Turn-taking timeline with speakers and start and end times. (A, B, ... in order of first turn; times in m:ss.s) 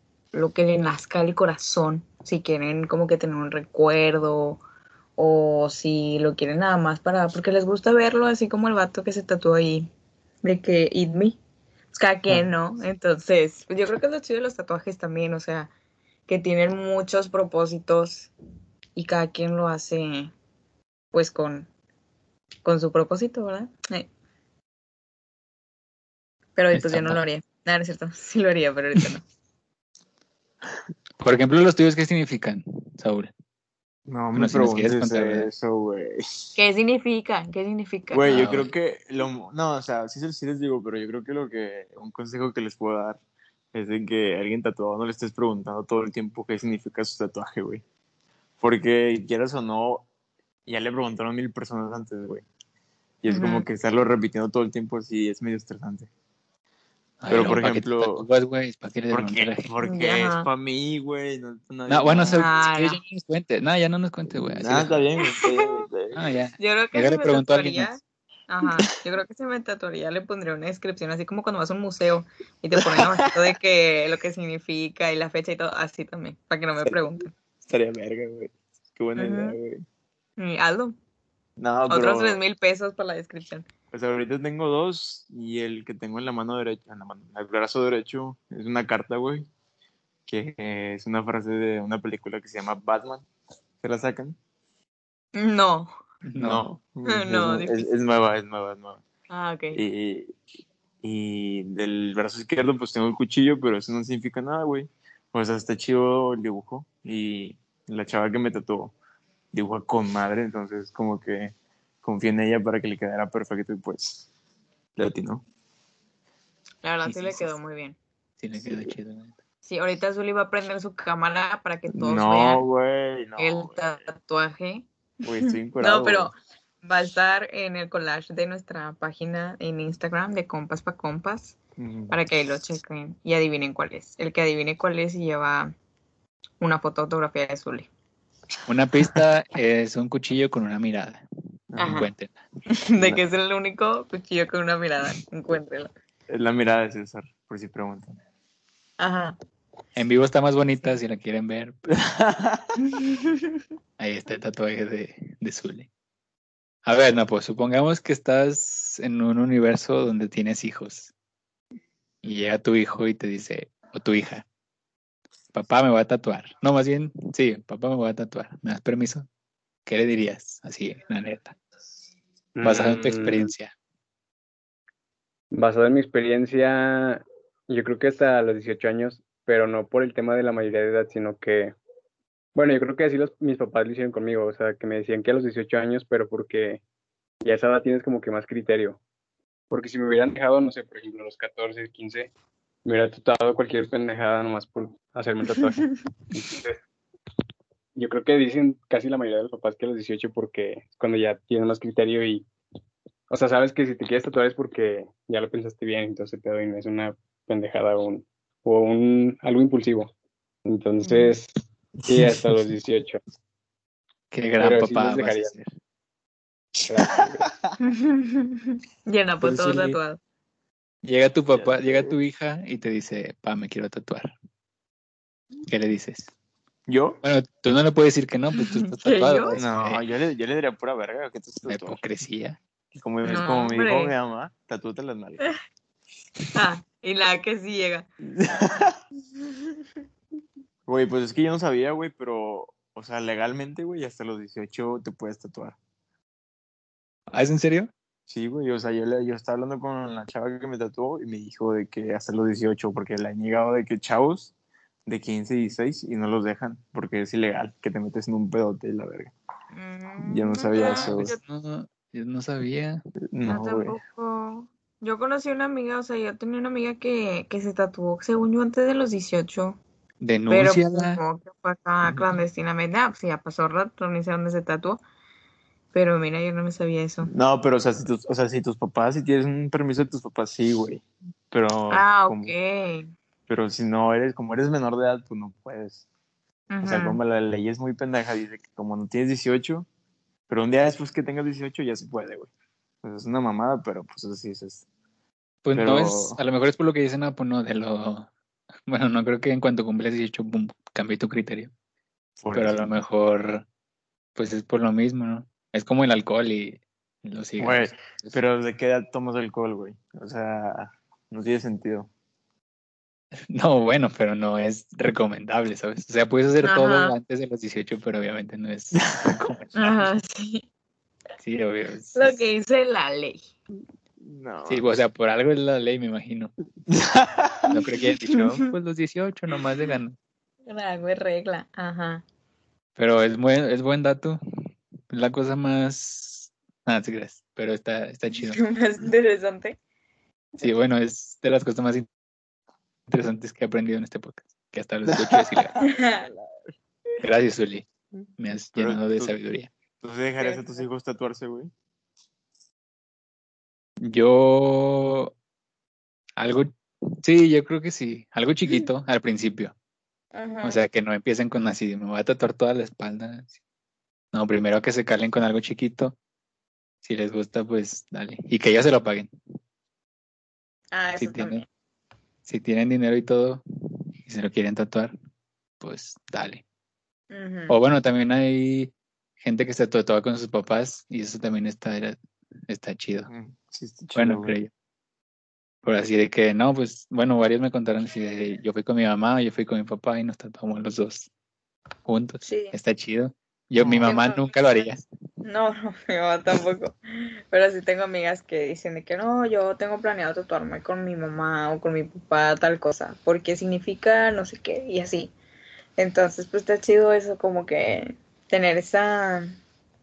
0:00.3-0:04.6 A
0:05.2-0:09.9 A
0:10.4-0:11.4 A
0:11.9-0:15.7 A
0:16.3-0:18.3 A
0:19.0-0:20.3 A
0:21.1-0:21.7 A
0:22.6-0:24.1 A
0:26.6-0:29.2 A
0:26.7-0:27.2 B
0:31.2-0:33.3 B
0:34.1-0:36.6 C
0:34.3-0:35.5 B
0:36.6-0:38.3 A
0:38.1-0:43.2 C
0:38.2-0:38.7 B
0:43.7-0:47.8 C
0:48.6-0:50.1 C
0:50.6-0:52.4 C
0:53.2-0:56.1 C
0:53.3-0:53.6 A
0:57.2-0:59.7 B
0:57.3-0:58.3 C
0:59.1-1:02.5 C
0:59.8-1:00.5 A
1:01.9-1:05.0 B
1:02.2-1:03.0 A
1:04.3-1:06.2 C
1:05.2-1:05.8 A
1:06.1-1:07.9 B
1:06.6-1:17.3 A
1:12.8-1:13.3 C
1:16.8-1:19.8 C
1:19.2-1:19.6 A
1:20.4-1:20.9 A
1:21.6-1:22.4 C
1:21.9-1:23.7 A
1:23.9-1:29.5 C
1:30.3-1:33.3 C
1:33.8-1:34.4 C
1:35.3-1:35.9 A
1:36.2-1:36.6 B
1:36.4-1:39.0 C
1:37.0-1:37.9 A
1:39.3-1:39.8 A
1:39.7-1:40.3 C
1:41.0-1:48.9 C
1:49.5-1:54.3 C
1:55.0-1:55.4 C
1:56.8-1:58.0 A
1:57.0-1:57.5 B
1:58.4-1:59.4 B
1:59.6-2:02.6 A
2:01.9-2:03.8 C
2:03.4-2:04.8 A
2:05.2-2:06.3 C
2:05.5-2:11.6 A
2:11.8-2:12.2 C
2:12.1-2:15.7 A
2:16.6-2:17.9 A
2:18.7-2:21.2 B
2:21.7-2:22.1 C
2:21.8-2:22.1 A
2:21.9-2:22.3 B
2:22.7-2:25.9 A
2:26.3-2:28.2 C
2:29.0-2:29.3 A
2:30.0-2:31.8 B
2:31.9-2:32.8 C
2:32.8-2:33.6 A
2:34.0-2:35.9 B
2:36.8-2:41.1 B
2:42.2-2:44.4 B
2:45.5-2:49.3 B
2:49.8-2:51.6 B
2:52.6-2:53.5 D
2:52.6-2:53.7 B
2:55.5-3:01.7 D
3:02.5-3:06.8 D
3:07.4-3:09.0 D
3:09.7-3:12.3 D
3:12.8-3:16.8 D
3:17.9-3:22.5 D
3:23.3-3:30.1 D
3:30.6-3:31.5 D
3:31.0-3:31.3 A
3:32.0-3:32.4 C
3:32.1-3:33.2 D
3:34.3-3:35.7 B
3:34.6-3:35.5 D
3:36.8-3:37.8 C
3:36.9-3:37.5 D
3:37.8-3:40.2 A
3:39.4-3:40.0 C
3:41.0-3:44.3 B
3:41.5-3:42.1 C
3:45.7-3:46.3 B
3:46.9-3:47.2 C
3:47.2-3:50.0 B
3:48.6-3:49.6 A
3:49.6-3:52.0 C
3:51.6-3:52.6 B
3:52.9-3:55.4 C
3:53.2-3:54.1 A
3:56.5-3:58.1 A
3:58.3-3:59.0 C
3:59.5-3:59.8 A
4:00.9-4:05.8 C
4:07.3-4:07.9 B
4:08.3-4:14.5 C
4:15.1-4:19.3 C
4:19.7-4:21.4 A
4:20.2-4:21.3 C
4:20.8-4:23.0 B
4:23.3-4:24.0 C
4:23.4-4:29.8 A
4:30.2-4:31.2 B
4:30.5-4:35.0 A
4:35.9-4:37.3 A
4:37.2-4:42.5 C
4:41.9-4:43.1 A
4:43.5-4:46.0 C
4:46.7-4:47.2 A
4:46.8-4:49.9 C
4:50.5-4:52.5 C
4:53.0-4:54.8 C
4:55.6-4:58.3 B
4:55.7-4:56.4 C
4:58.9-5:01.7 B
5:02.4-5:02.9 C
5:02.5-5:03.6 B
5:04.3-5:08.4 B
5:07.6-5:12.1 C
5:13.5-5:20.1 B
5:16.6-5:17.2 A
5:19.0-5:19.6 C
5:19.7-5:20.6 A
5:21.4-5:22.4 B
5:22.1-5:23.5 A
5:24.2-5:24.9 C
5:24.7-5:26.5 B
5:26.9-5:27.7 C
5:27.7-5:28.6 A
5:27.7-5:30.2 B
5:30.6-5:32.2 A
5:33.0-5:38.6 B
5:38.4-5:39.8 A
5:40.6-5:42.1 B
5:43.1-5:45.7 B
5:45.1-5:46.5 C
5:45.8-5:46.2 A
5:47.2-5:47.8 B
5:48.4-5:49.7 B
5:48.8-5:49.3 C
5:50.0-5:51.7 C
5:50.4-5:50.6 A
5:54.0-5:55.3 B
5:56.4-5:59.7 B
6:00.3-6:00.8 A
6:00.6-6:03.5 B
6:04.3-6:06.2 B
6:07.0-6:09.3 B
6:10.9-6:11.6 A
6:11.2-6:11.6 B
6:12.4-6:15.1 B
6:15.8-6:16.6 B
6:17.3-6:17.8 A
6:17.7-6:23.3 B
6:23.3-6:24.6 C
6:24.1-6:24.7 B
6:25.8-6:31.3 B
6:32.0-6:35.0 B
6:32.4-6:32.7 A
6:33.8-6:34.1 C
6:34.0-6:34.5 A
6:35.4-6:45.3 A
6:46.0-6:49.6 A